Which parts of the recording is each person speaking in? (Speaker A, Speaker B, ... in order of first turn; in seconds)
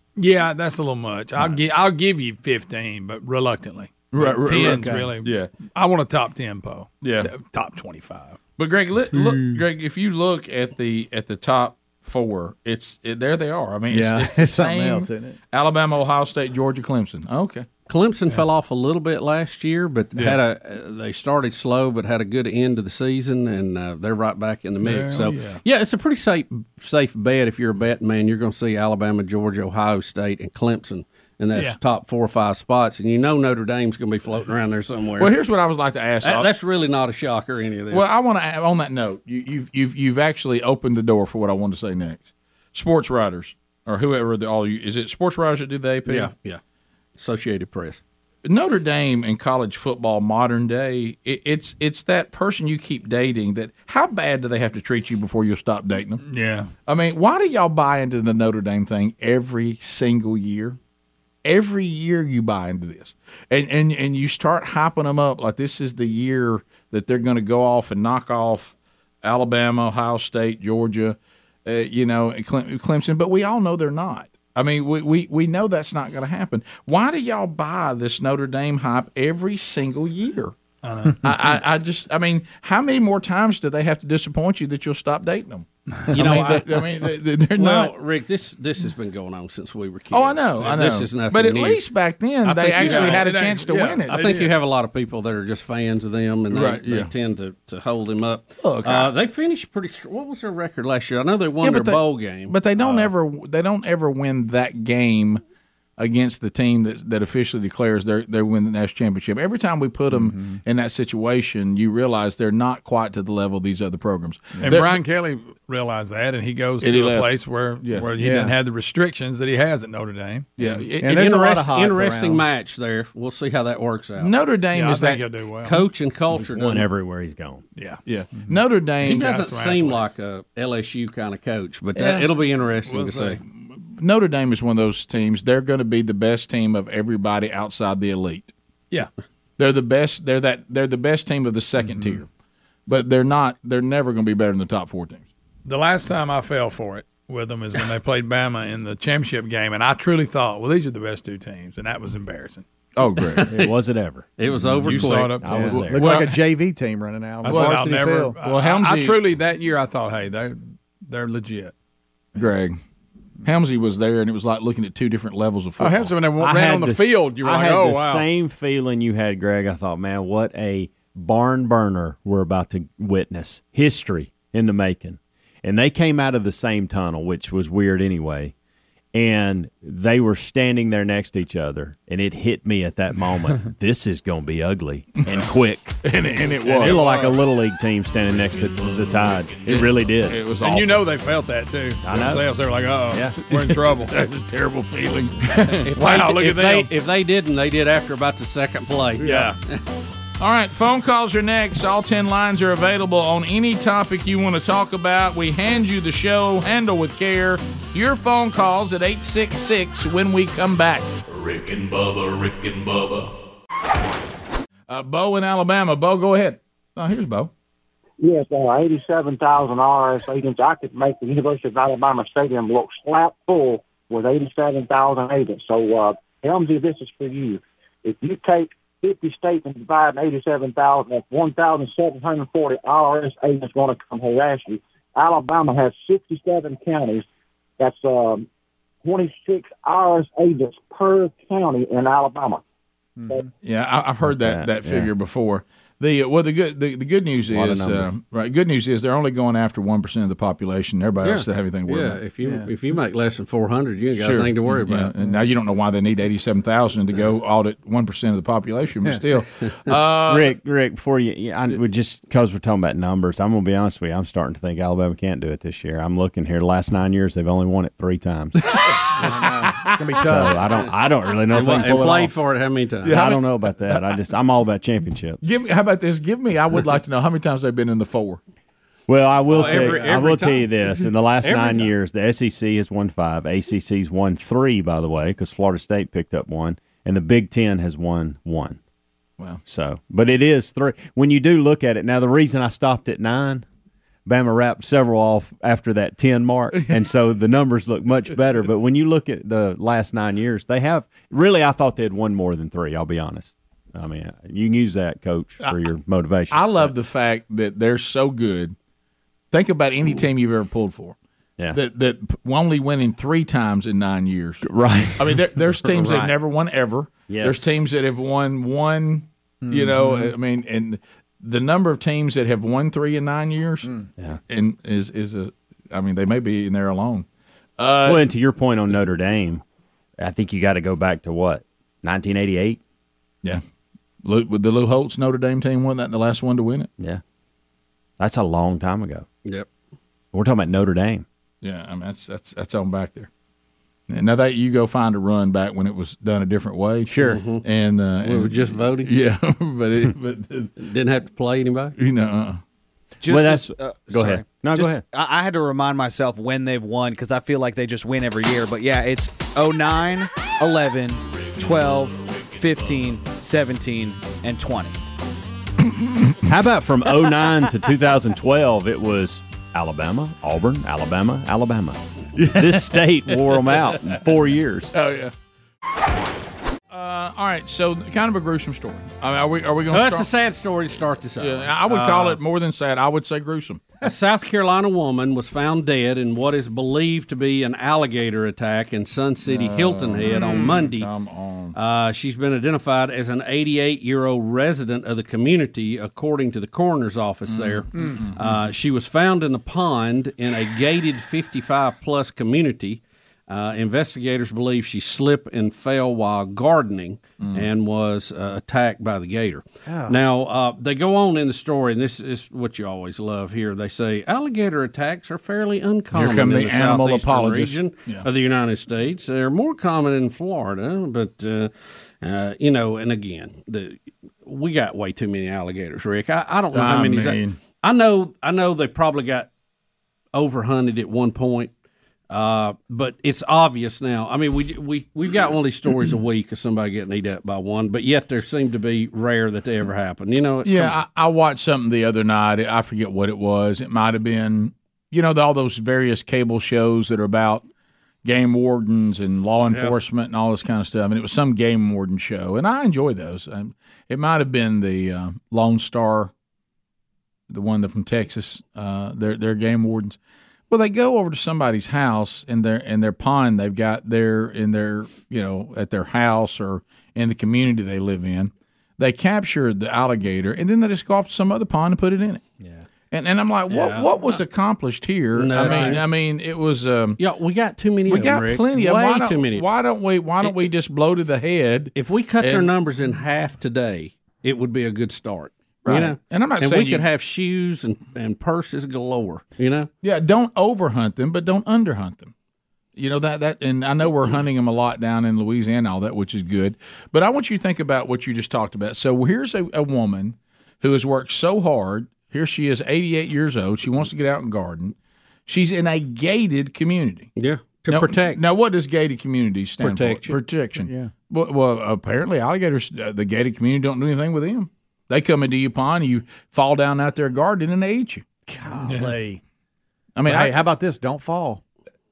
Speaker A: 0.2-8.4, 24.8-25.6, 56.2-56.7, 80.8-81.2, 86.0-86.3, 92.5-94.5, 114.6-120.7, 124.7-125.8, 127.8-128.0, 129.0-130.1, 131.9-132.3, 132.9-133.4, 145.7-152.6, 154.9-155.8, 157.4-161.7, 165.8-168.3, 186.8-187.4, 190.6-194.2, 195.5-196.9, 199.2-199.6, 518.9-519.2
Speaker B: 4.1-5.5, 7.0-7.3, 8.6-17.7, 35.2-36.5, 37.9-46.3, 48.5-56.2, 56.9-60.8, 61.4-80.5, 81.2-87.9, 90.1-94.3, 96.5-97.1, 98.6-99.1, 101.6-105.4, 106.0-115.0, 116.8-118.1, 120.6-121.3, 124.2-125.3, 128.1-129.4, 133.7-138.5, 139.6-142.3, 142.9-145.2, 153.0-153.6, 155.7-156.4, 157.5-159.2, 162.4-162.8, 163.4-166.5, 186.0-187.1, 189.7-191.1, 193.6-195.4, 200.4-211.2, 214.9-217.5, 243.6-252.2, 254.2-260.6, 268.7-269.9, 271.7-272.1, 273.1-274.3, 275.4-278.4, 306.5-308.8, 309.5-311.2, 311.7-314.6, 315.2-327.3, 327.8-328.3, 334.2-336.9, 341.6-343.3, 344.1-350.7, 352.0-352.6, 372.4-374.2, 374.9-375.3, 376.9-380.3, 381.4-384.1, 389.5-391.8, 397.5-398.4, 416.1-418.3, 426.7-427.6, 440.6-447.6, 448.2-456.3, 457.5-460.2, 460.7-472.4, 473.1-477.2, 478.1-482.7, 485.9-487.0, 490.0-492.3, 493.0-504.9, 505.5-507.3, 507.9-518.2, 520.2-520.6
Speaker C: 4.5-5.2, 13.9-15.4, 110.1-110.6, 118.2-118.6, 121.0-122.5, 155.5-158.4, 252.4-252.7, 269.2-270.6, 279.6-280.0, 319.6-320.3, 409.9-410.2, 475.6-475.9, 510.8-511.1, 518.5-519.4, 520.2-521.6
Speaker D: 17.9-35.4, 36.2-38.1, 46.1-46.6, 47.2-48.0, 86.1-87.0, 87.6-91.8, 92.4-93.3, 94.1-102.6, 121.0-124.3, 125.6-126.9, 129.0-133.4, 154.4-155.5, 195.9-199.8, 251.2-255.1, 271.5-273.2, 279.5-281.9, 315.9-316.3, 347.2-347.6, 348.2-349.1, 350.8-352.0, 379.9-382.4, 384.0-391.1, 391.8-429.5, 430.3-431.7, 432.3-441.0, 449.7-450.0, 473.7-474.1, 475.4-476.1, 477.2-479.7, 480.4-480.7, 481.9-489.9, 507.4-508.4, 509.8-510.4
Speaker E: 126.3-127.6, 153.5-156.2, 166.4-178.5, 179.1-186.0, 186.8-190.5, 192.0-192.6, 193.1-193.5, 244.2-245.1, 247.5-248.1, 260.3-269.3, 270.2-272.3, 273.0-275.4, 279.1-288.8, 289.6-293.7, 294.3-306.9, 314.6-315.4, 317.3-317.7, 328.1-329.6, 330.2-332.8, 338.2-339.3, 340.3-341.2, 353.3-355.0, 366.4-374.9
Speaker F: 188.5-189.8, 211.3-213.3, 361.4-363.1
Speaker G: 218.2-237.2, 237.8-238.5, 239.0-242.6
Speaker H: 353.2-365.0